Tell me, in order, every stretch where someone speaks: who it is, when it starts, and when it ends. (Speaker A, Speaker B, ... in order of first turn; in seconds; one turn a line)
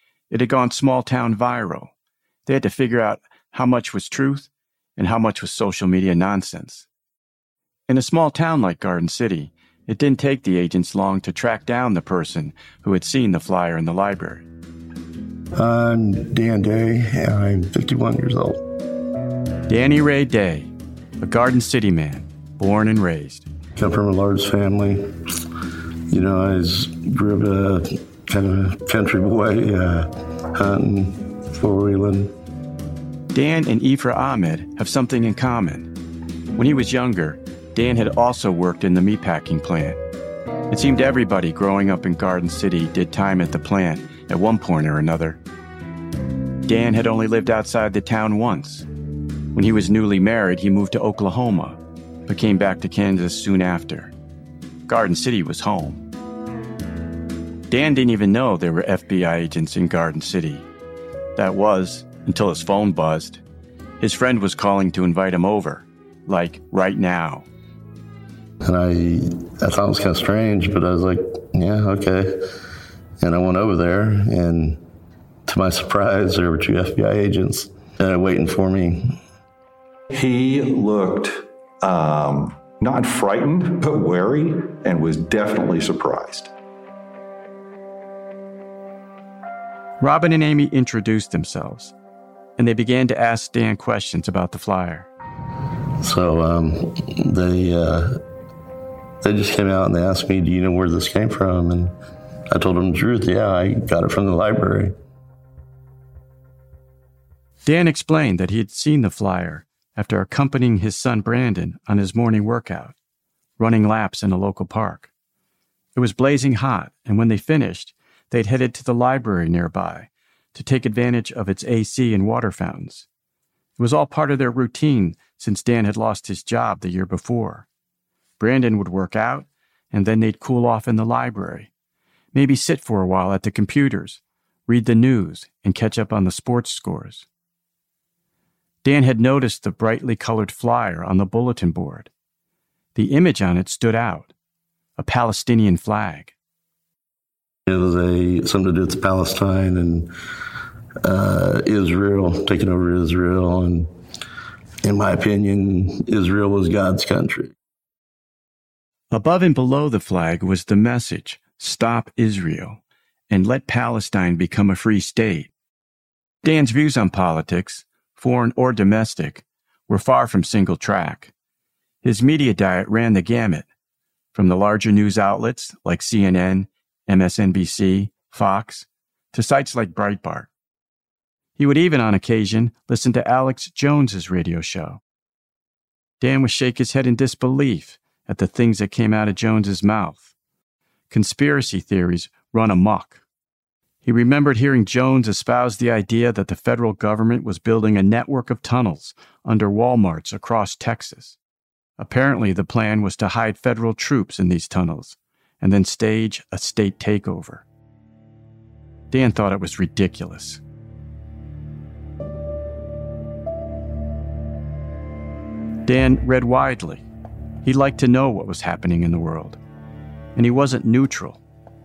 Speaker A: 0.3-1.9
Speaker A: 2.5-6.9
Speaker A: 7.9-14.4
Speaker B: 15.6-18.6
Speaker A: 19.7-23.5
Speaker B: 23.8-25.2
Speaker B: 26.1-32.3
Speaker A: 33.3-35.9
Speaker A: 36.6-40.0
Speaker A: 40.7-45.4
Speaker A: 46.6-48.9
Speaker A: 49.5-54.1
Speaker A: 54.9-56.0
Speaker A: 57.7-60.7
Speaker A: 61.4-63.4
Speaker A: 64.0-67.5
Speaker B: 68.6-72.4
Speaker B: 73.2-74.8
Speaker B: 75.5-79.2
Speaker C: 80.1-86.5
Speaker A: 90.0-91.9
Speaker A: 92.6-95.1
Speaker B: 96.0-98.2
Speaker B: 99.2-101.9
Speaker B: 102.5-105.0
Speaker A: 107.7-113.0
Speaker A: 113.6-115.1
Speaker A: 116.0-123.1
Speaker A: 123.8-127.7
Speaker A: 128.4-131.7
Speaker A: 132.3-137.3
Speaker A: 138.8-142.1
Speaker A: 142.9-144.3
Speaker A: 145.0-146.3
Speaker B: 147.7-150.1
Speaker B: 151.0-153.9
Speaker B: 154.8-157.5
Speaker A: 159.1-165.5
Speaker A: 166.4-171.3
Speaker A: 172.0-173.7
Speaker A: 174.3-180.5
Speaker A: 181.6-185.0
Speaker A: 186.2-190.3
Speaker A: 191.1-193.2
Speaker A: 194.1-201.4
Speaker A: 202.0-207.7
Speaker A: 209.1-210.6
Speaker A: 215.9-217.1
Speaker A: 217.6-219.6
Speaker A: 220.4-221.4